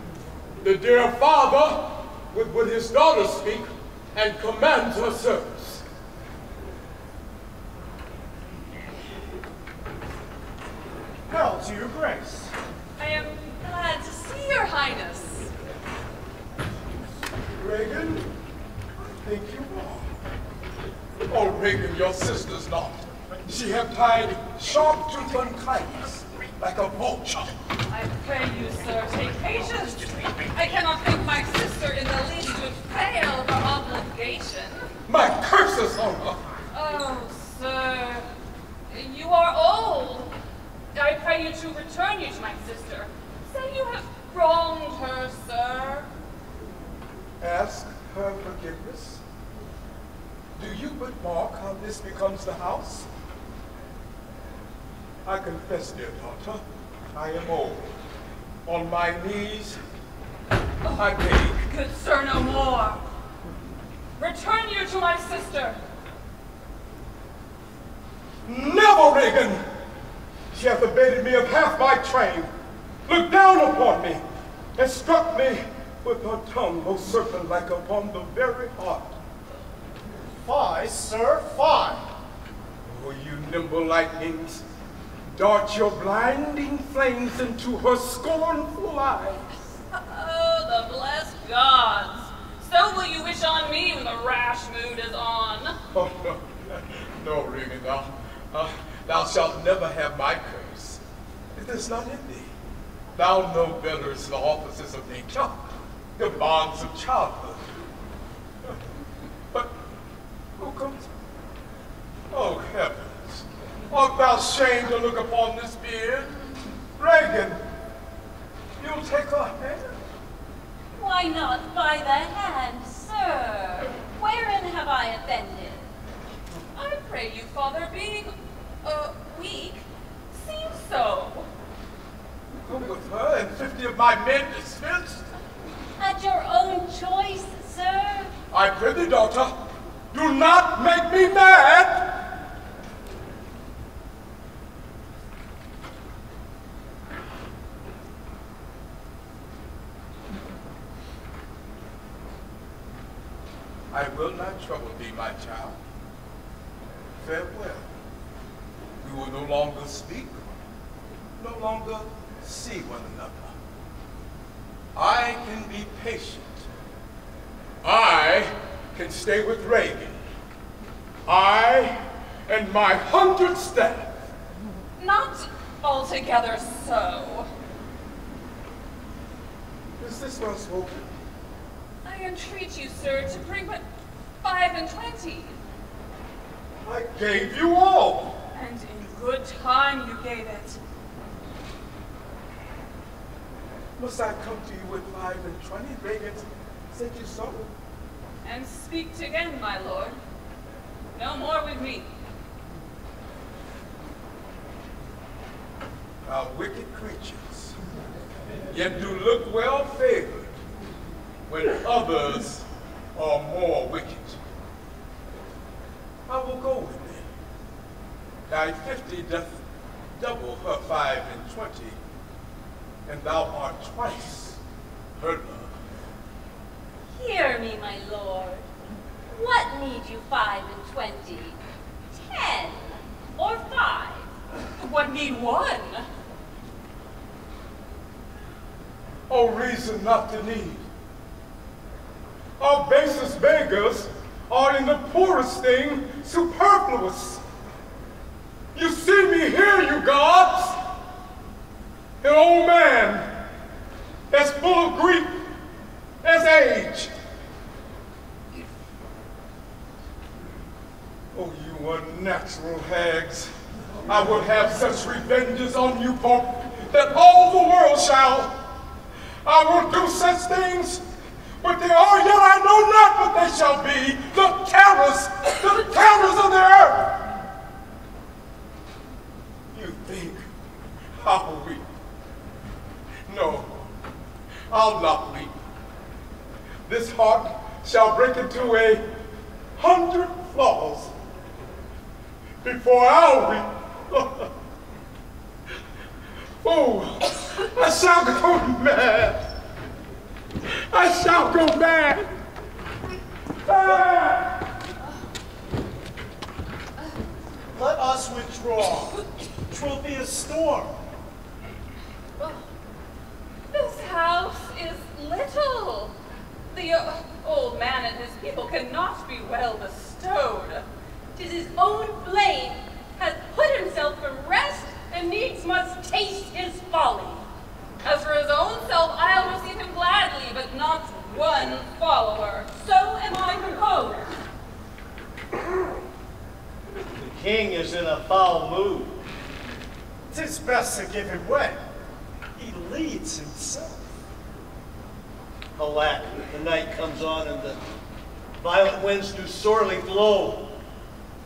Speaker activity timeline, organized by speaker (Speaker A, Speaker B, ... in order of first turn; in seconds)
Speaker A: 0.6-5.8, 17.6-18.3, 19.0-20.1, 21.3-27.5, 35.1-36.4, 47.4-49.2, 50.6-53.1, 55.2-57.9, 58.7-59.8, 61.0-61.6, 68.5-69.6, 70.5-72.5, 73.1-74.2, 74.8-79.2, 82.8-84.6, 85.4-89.5, 95.9-101.0, 101.5-102.5, 103.2-107.7, 110.6-111.1, 112.3-116.3, 117.0-117.6, 118.8-119.9, 132.5-135.3, 138.5-139.6, 140.1-142.2, 153.9-155.8, 157.2-157.9, 159.0-160.4, 161.4-163.6, 164.9-166.7, 167.8-170.2, 171.3-174.2, 180.0-181.1, 186.8-188.4, 194.0-197.7, 206.2-207.8, 208.7-210.6, 211.5-214.4, 216.3-217.3, 218.5-219.6, 220.2-222.0, 223.1-224.6, 225.2-225.8, 239.3-240.8, 242.6-247.4, 248.7-250.8, 252.2-253.3, 254.3-255.4, 256.2-257.1, 261.3-263.5, 264.1-268.6, 269.4-271.0, 271.6-277.2, 279.7-280.4, 281.2-281.9, 283.3-283.8, 284.7-285.6, 286.9-289.1, 289.8-291.1, 292.6-294.5, 296.6-299.5, 300.7-302.3, 303.7-304.5
Speaker B: 11.3-12.5, 80.4-82.0, 307.7-311.0, 340.3-341.8, 342.6-344.1
Speaker C: 13.0-15.5, 27.9-34.9, 36.7-38.3, 38.9-40.3, 40.9-46.1, 60.9-63.0, 64.2-65.8, 89.9-95.8, 126.7-131.5, 175.0-177.5, 182.1-183.8, 184.4-185.6, 188.5-190.8, 198.4-200.2, 201.2-202.1, 234.8-236.1, 313.7-316.1, 316.7-320.9, 328.0-332.7
Speaker D: 121.0-125.8, 136.0-138.3, 227.1-228.7, 229.3-231.6, 232.1-234.3, 321.4-327.4, 332.7-334.3
Speaker E: 337.2-339.1, 345.8-347.8, 348.6-350.7